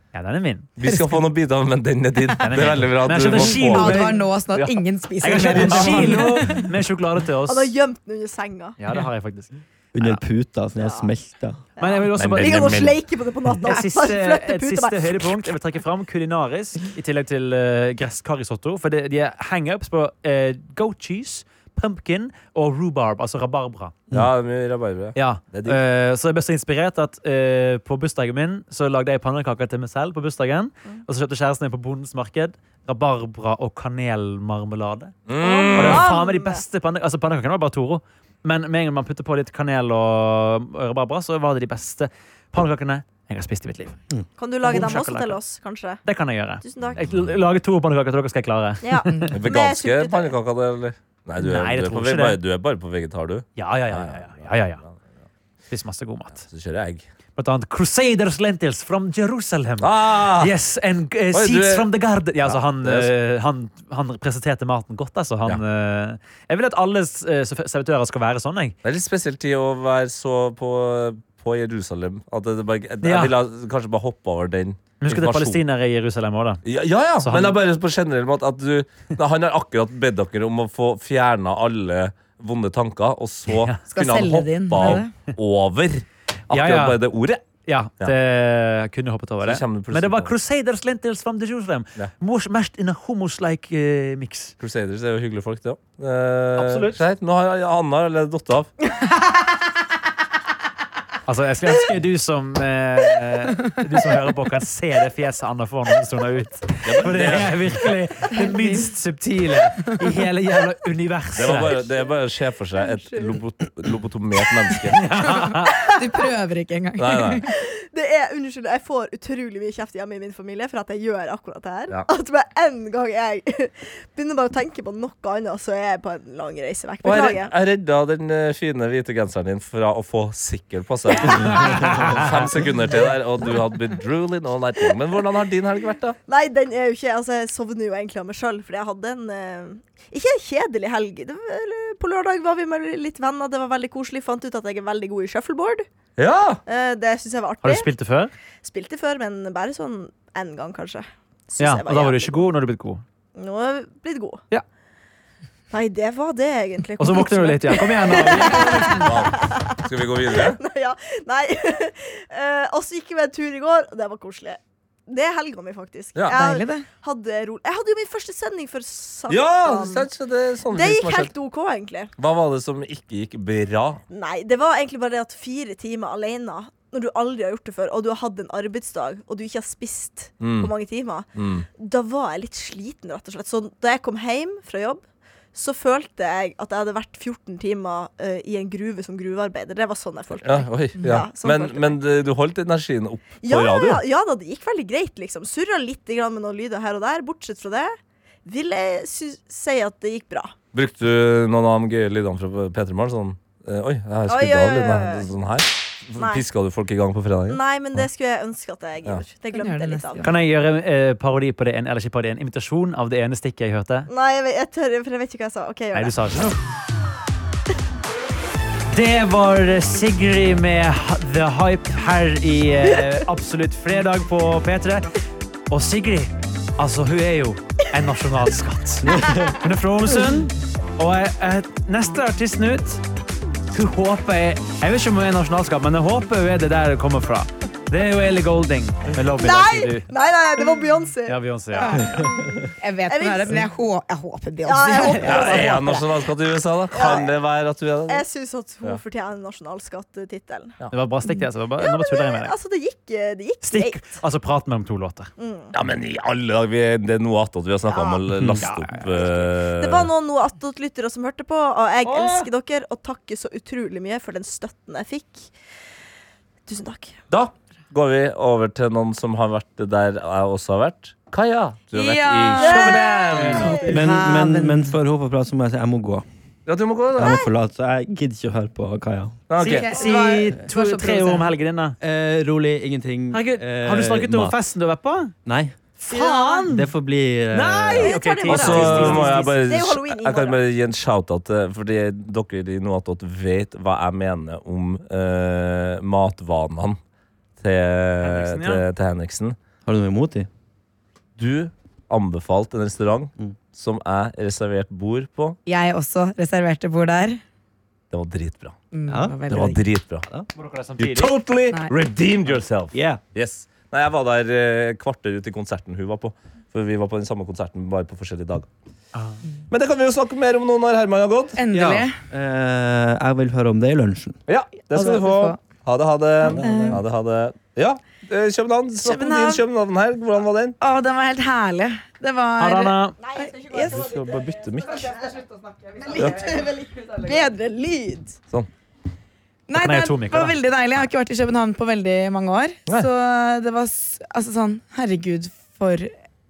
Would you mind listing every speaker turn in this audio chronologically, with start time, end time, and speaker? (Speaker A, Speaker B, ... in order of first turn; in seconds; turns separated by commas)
Speaker A: 0.1-0.7, Speaker B: 0.8-4.8, Speaker A: 2.4-4.2, Speaker C: 3.5-6.7, Speaker A: 5.2-7.7, Speaker B: 5.6-6.2, Speaker D: 7.5-8.8, Speaker A: 8.8-10.2, Speaker E: 9.9-11.6, Speaker D: 10.8-11.1, Speaker D: 11.8-15.4, Speaker A: 11.8-12.9, Speaker B: 12.2-13.0, Speaker A: 13.7-23.9, Speaker B: 24.1-25.8, Speaker A: 25.1-35.1, Speaker B: 35.3-36.1, Speaker D: 35.4-36.6, Speaker A: 35.8-44.0, Speaker D: 44.4-46.0, Speaker A: 44.6-45.4, Speaker A: 46.0-49.3, Speaker D: 46.6-47.0, Speaker B: 46.8-47.3, Speaker D: 48.8-50.4, Speaker B: 49.3-55.0, Speaker A: 51.4-52.4, Speaker A: 53.6-54.8, Speaker A: 55.7-56.5, Speaker B: 56.4-57.1, Speaker A: 57.4-68.8, Speaker B: 59.8-60.5, Speaker B: 61.3-61.9, Speaker B: 62.4-63.1, Speaker B: 68.8-75.6, Speaker A: 73.0-73.3, Speaker A: 75.0-76.6, Speaker B: 76.6-87.4, Speaker A: 77.2-77.6, Speaker A: 83.5-83.8, Speaker C: 83.9-85.1, Speaker A: 86.5-87.0, Speaker A: 87.6-94.5, Speaker B: 89.4-90.3, Speaker B: 94.6-98.7, Speaker A: 96.5-97.0, Speaker A: 101.3-111.9, Speaker B: 106.8-107.7, Speaker C: 108.3-108.8, Speaker B: 111.3-115.0, Speaker D: 112.8-113.4, Speaker A: 115.0-115.8, Speaker C: 115.7-117.5, Speaker B: 117.0-117.4, Speaker D: 117.5-127.5, Speaker B: 127.0-136.2, Speaker D: 131.1-131.5, Speaker A: 131.3-132.3, Speaker D: 136.3-145.9, Speaker B: 146.2-146.6, Speaker D: 146.7-147.9, Speaker A: 147.6-148.3, Speaker D: 148.6-152.4, Speaker A: 151.6-153.0, Speaker D: 153.3-154.4, Speaker D: 155.7-170.1, Speaker A: 157.0-159.1, Speaker B: 159.0-160.6, Speaker C: 166.3-166.9, Speaker B: 169.3-171.3, Speaker D: 170.7-172.1, Speaker B: 172.2-174.0, Speaker D: 174.1-185.0, Speaker B: 180.4-180.7, Speaker B: 181.3-181.7, Speaker D: 185.5-192.0, Speaker B: 190.4-194.0, Speaker D: 193.4-200.5, Speaker B: 200.7-208.1, Speaker D: 204.3-205.3, Speaker D: 206.2-206.4, Speaker D: 207.5-210.2, Speaker C: 209.5-210.4, Speaker A: 210.2-214.1, Speaker D: 214.1-216.2, Speaker A: 215.9-216.6, Speaker A: 218.9-225.1, Speaker A: 225.7-233.0, Speaker E: 229.1-229.6, Speaker A: 233.7-240.1, Speaker D: 239.4-241.4, Speaker A: 241.3-242.3, Speaker C: 241.8-246.0, Speaker D: 242.2-243.6, Speaker D: 244.6-246.1, Speaker B: 245.2-248.3, Speaker D: 246.9-247.3, Speaker D: 248.1-250.8, Speaker A: 250.9-252.5, Speaker D: 251.8-254.2, Speaker A: 253.6-255.3, Speaker D: 255.4-255.7, Speaker B: 255.7-260.1, Speaker D: 257.9-258.2, Speaker A: 258.6-259.1, Speaker D: 259.2-265.5, Speaker A: 262.1-262.5, Speaker D: 266.7-267.2, Speaker B: 267.3-273.9, Speaker C: 271.9-274.9, Speaker D: 272.6-274.1, Speaker E: 273.9-276.2, Speaker B: 276.6-277.4, Speaker E: 277.1-279.4, Speaker D: 277.2-277.5, Speaker B: 279.5-280.0, Speaker C: 279.6-281.5, Speaker A: 279.9-282.0, Speaker E: 282.0-284.6, Speaker A: 283.3-285.3, Speaker E: 285.5-285.8, Speaker A: 286.0-286.9, Speaker C: 286.1-286.7, Speaker E: 286.7-288.2, Speaker A: 287.5-289.6, Speaker D: 287.8-290.6, Speaker B: 288.5-297.0, Speaker E: 288.7-289.0, Speaker B: 297.6-299.6, Speaker A: 298.2-298.8, Speaker E: 299.9-300.5, Speaker B: 301.4-305.6, Speaker C: 305.7-307.4, Speaker B: 308.1-308.8, Speaker C: 308.9-309.8, Speaker E: 309.1-309.4, Speaker B: 309.5-310.3, Speaker A: 310.5-311.4, Speaker B: 311.0-318.7, Speaker E: 312.9-313.2, Speaker B: 319.7-321.6, Speaker C: 321.6-322.2, Speaker E: 321.7-324.4, Speaker B: 324.5-330.8, Speaker C: 324.9-325.6, Speaker C: 326.4-327.0, Speaker E: 326.5-326.9, Speaker C: 329.0-329.6, Speaker C: 330.8-334.0, Speaker A: 332.6-333.2, Speaker D: 333.2-334.5, Speaker B: 333.7-335.2, Speaker C: 334.9-337.4, Speaker D: 336.0-338.4, Speaker B: 336.1-336.4, Speaker C: 339.7-346.1, Speaker A: 339.7-340.6